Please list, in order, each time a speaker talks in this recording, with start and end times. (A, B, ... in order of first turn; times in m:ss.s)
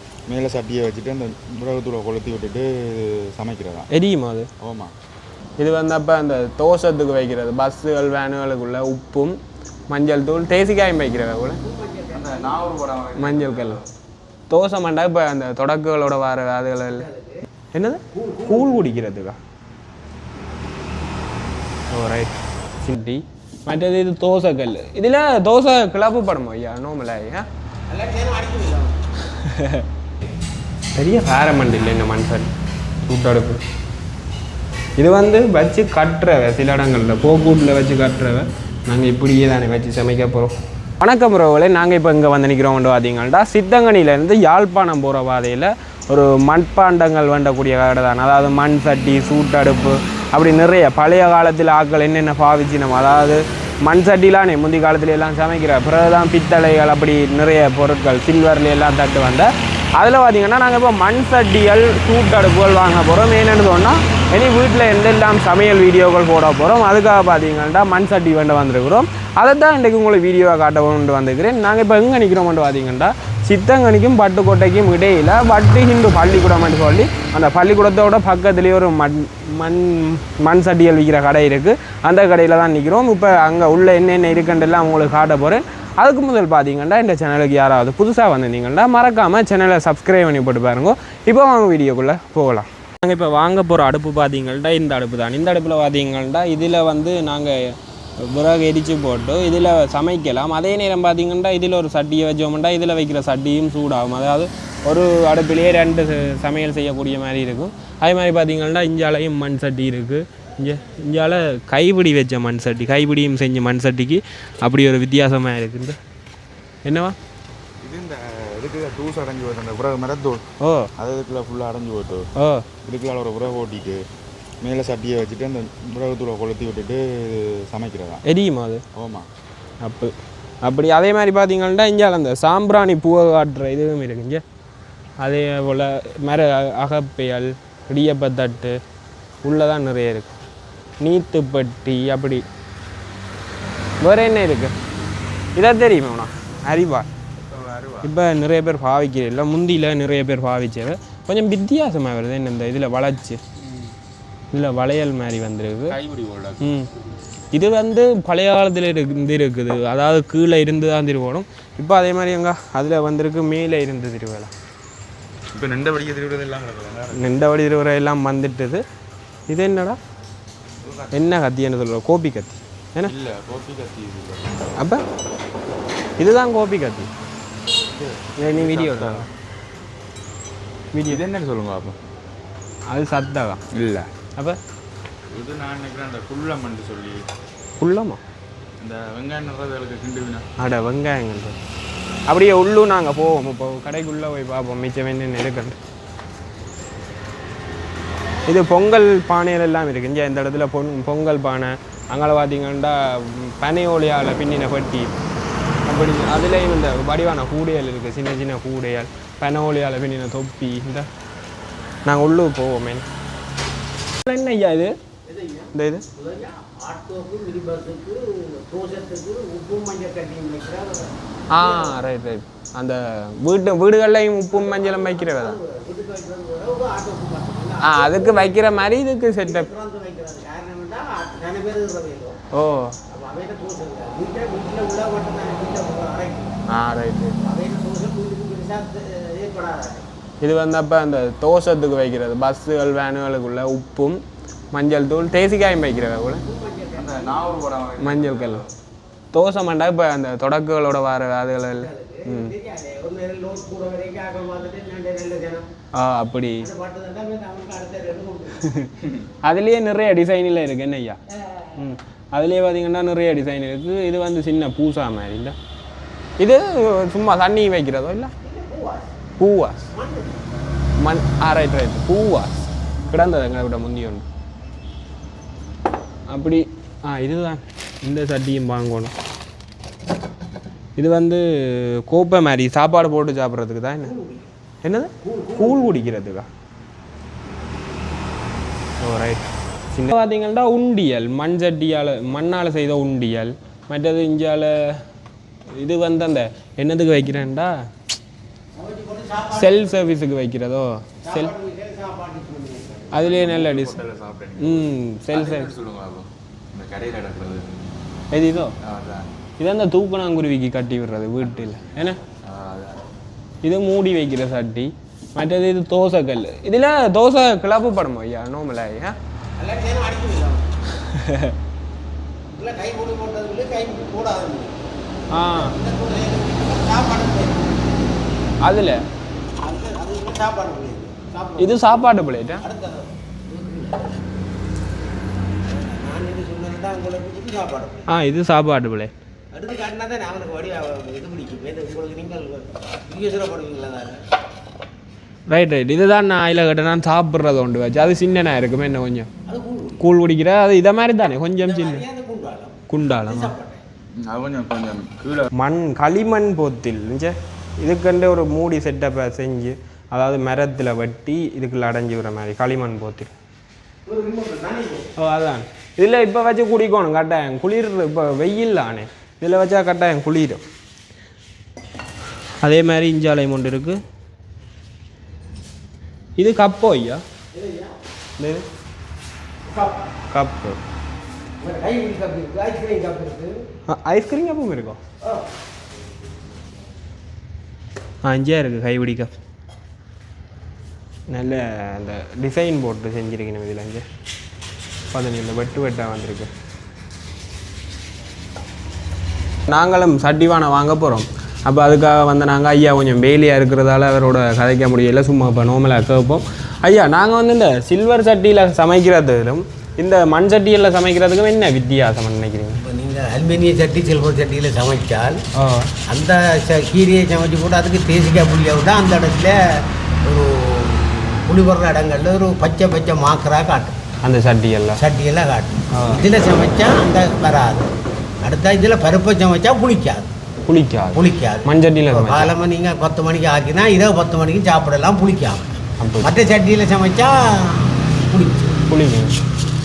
0:00.3-0:02.7 A
0:03.4-0:03.9 A
0:03.9-0:04.5 B
0:04.6-0:04.9 A
0:05.6-0:09.4 B
0:09.9-0:11.6 B
0:11.6-0:12.8 C
0:12.1-0:13.8 A
0:13.2-0:13.8 B
0:14.5-0:17.1 B
0:17.0-0:17.4 C
0:17.7-0:19.4 B
0:18.1-0:18.9 C
0:21.9-0:27.5 B
0:27.9-0:29.0 C
0:29.3-0:29.8 B
0:31.0-0:32.5 B
0:33.0-0:33.6 B
0:35.0-1:56.0 B
1:56.8-1:57.2 B
1:57.8-2:00.4 A
2:00.6-2:00.9 B
2:01.0-2:02.2 A
2:02.4-2:02.6 B
2:02.8-2:04.0 A
2:04.6-2:08.2 A
2:08.3-2:08.8 B
2:09.0-2:09.3 A
2:09.8-2:14.4 B
2:15.2-2:18.8 B
2:19.4-2:20.4 B
2:21.0-2:22.4 B
2:24.0-2:24.7 B
2:25.6-2:27.1 B
2:27.4-2:28.1 A
2:28.0-2:33.4 B
2:34.5-2:36.0 B
2:35.9-2:36.6 A
2:36.6-2:36.9 B
2:37.5-2:44.5 B
2:45.6-2:47.2 A
2:47.1-2:48.8 B
2:49.5-2:50.0 B
2:50.8-2:51.3 A
2:51.1-2:53.1 B
2:53.1-2:54.7 A
2:54.8-2:55.0 B
2:56.2-2:57.1 B
2:57.9-2:59.3 A
2:58.4-2:59.3 B
3:00.9-3:01.2 B
3:01.1-3:02.0 A
3:02.9-3:03.6 B
3:03.7-3:04.1 A
3:05.3-3:07.3 A
3:07.8-3:08.2 B
3:08.8-3:10.5 A
3:10.6-3:11.6 B
3:12.3-3:15.8 B
3:18.5-3:25.2 B
3:25.9-3:31.1 B
3:32.1-3:33.1 B
3:34.2-3:35.0 B
3:35.3-3:42.0 C
3:35.7-3:36.0 B
3:41.5-3:45.6 B
3:44.5-3:52.4 C
3:47.8-3:49.7 B
3:52.5-3:53.0 B
3:53.1-3:56.6 C
3:56.7-3:57.4 B
3:57.4-4:00.1 C
4:00.4-4:04.2 B
4:04.7-4:06.4 B
4:06.4-4:07.6 C
4:07.0-4:08.7 A
4:08.0-4:08.6 B
4:09.3-4:12.5 B
4:11.7-4:15.6 C
4:15.9-4:16.7 B
4:16.6-4:18.6 C
4:19.4-4:21.2 B
4:21.8-4:25.6 B
4:26.4-4:28.3 B
4:28.4-4:29.1 C
4:29.4-4:29.8 B
4:29.9-4:30.4 C
4:31.0-4:34.2 B
4:36.3-4:39.1 B
4:41.0-4:44.1 B
4:44.0-4:44.5 C
4:44.8-4:46.5 B
4:45.2-4:46.0 C
4:49.0-4:55.0 B
4:55.8-4:57.8 B
4:58.8-4:59.8 C
4:59.6-5:01.5 B
5:01.2-5:03.3 C
5:03.1-5:04.0 B
5:03.2-5:07.9 A
5:04.6-5:05.7 B
5:08.3-5:08.7 B
5:08.8-5:09.3 A
5:09.6-5:12.2 B
5:12.5-5:13.0 A
5:13.6-5:19.2 B
5:19.6-5:20.7 C
5:21.0-5:21.6 B
5:22.5-5:24.8 C
5:25.3-5:25.8 B
5:25.5-5:28.0 C
5:28.6-5:29.0 B
5:29.6-5:34.3 C
5:31.6-5:32.6 B
5:35.7-5:38.1 C
5:38.1-5:39.1 B
5:39.5-5:44.2 C
5:45.5-5:49.3 B
5:49.5-5:50.0 C
5:50.0-5:52.0 B
5:51.6-5:53.8 C
5:52.9-5:53.5 B
5:54.2-5:55.5 A
5:55.5-6:03.3 B
6:04.1-6:05.1 C
6:05.2-6:10.6 B
6:12.6-6:14.0 B
6:16.4-6:17.2 B
6:17.5-6:18.0 C
6:18.4-6:18.7 B
6:19.7-6:20.1 C
6:20.3-6:20.8 B
6:21.6-6:23.6 C
6:23.9-6:25.0 B
6:28.2-6:29.3 B
6:31.3-6:34.0 B
6:35.1-6:36.5 B
6:39.7-6:52.8 B
6:52.8-6:55.4 C
6:55.6-6:55.9 B
6:56.1-7:04.0 C
7:04.2-7:05.0 B
7:05.0-7:07.9 C
7:05.9-7:06.2 B
7:08.4-7:10.3 C
7:10.7-7:12.5 B
7:11.1-7:18.8 C
7:16.0-7:16.4 B
7:18.9-7:19.4 B